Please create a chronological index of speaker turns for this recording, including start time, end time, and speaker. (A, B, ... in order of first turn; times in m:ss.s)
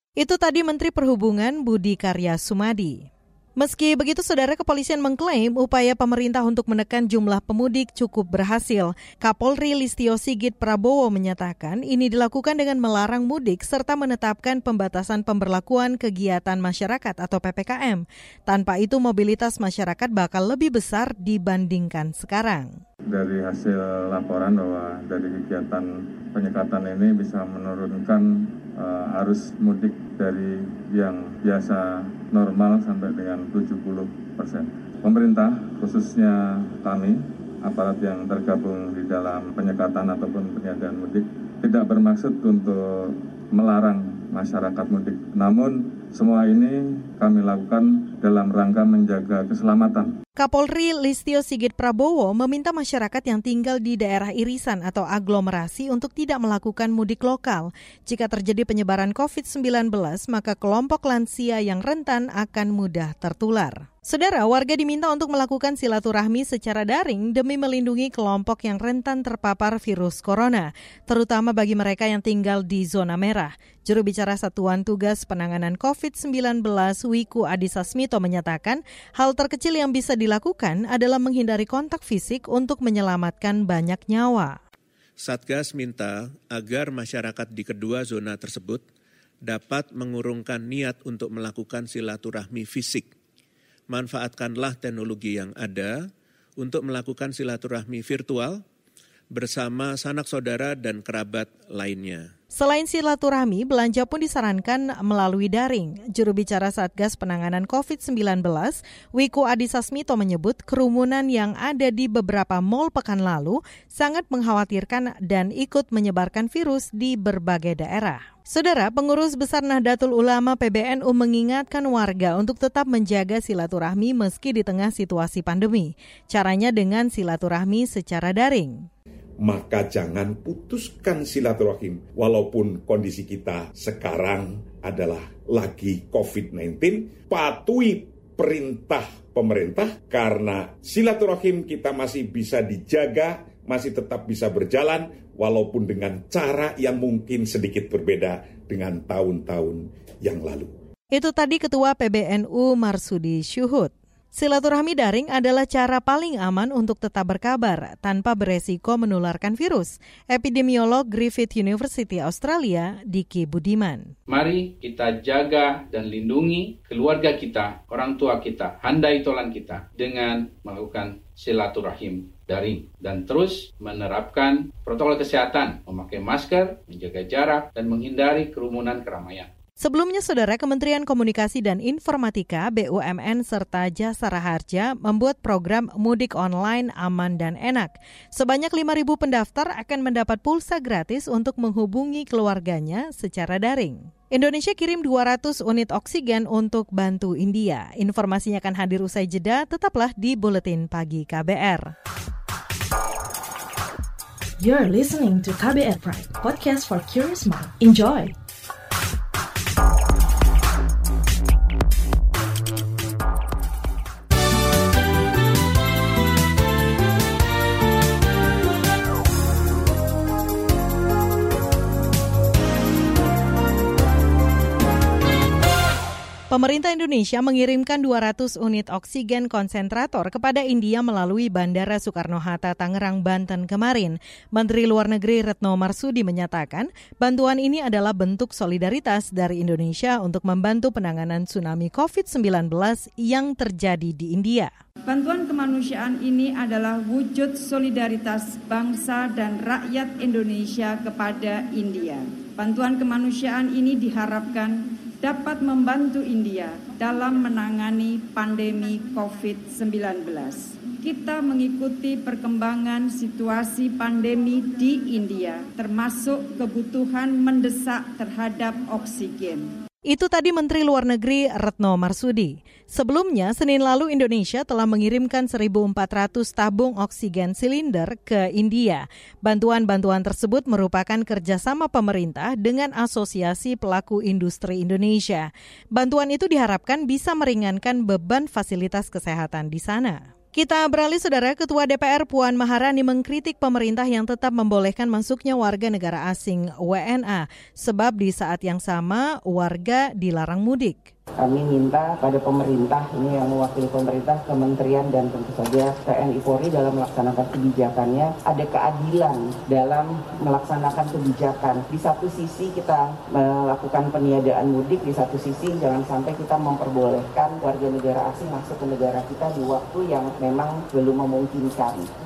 0:00.2-0:22.8 A
0:23.1-0:50.1 B
0:50.4-1:24.6 A
1:25.2-1:28.8 C
1:29.4-1:33.1 C
1:33.9-1:36.1 C
1:36.6-1:38.6 C
1:39.3-1:42.3 C
1:42.5-2:08.9 A
2:09.4-2:30.7 D
2:31.1-2:44.1 A
2:44.3-2:59.5 E
2:59.8-3:21.9 A
3:24.6-3:28.3 F
3:46.5-4:04.7 A
4:05.1-4:29.8 G
4:30.1-5:01.1 A
5:01.4-5:22.1 H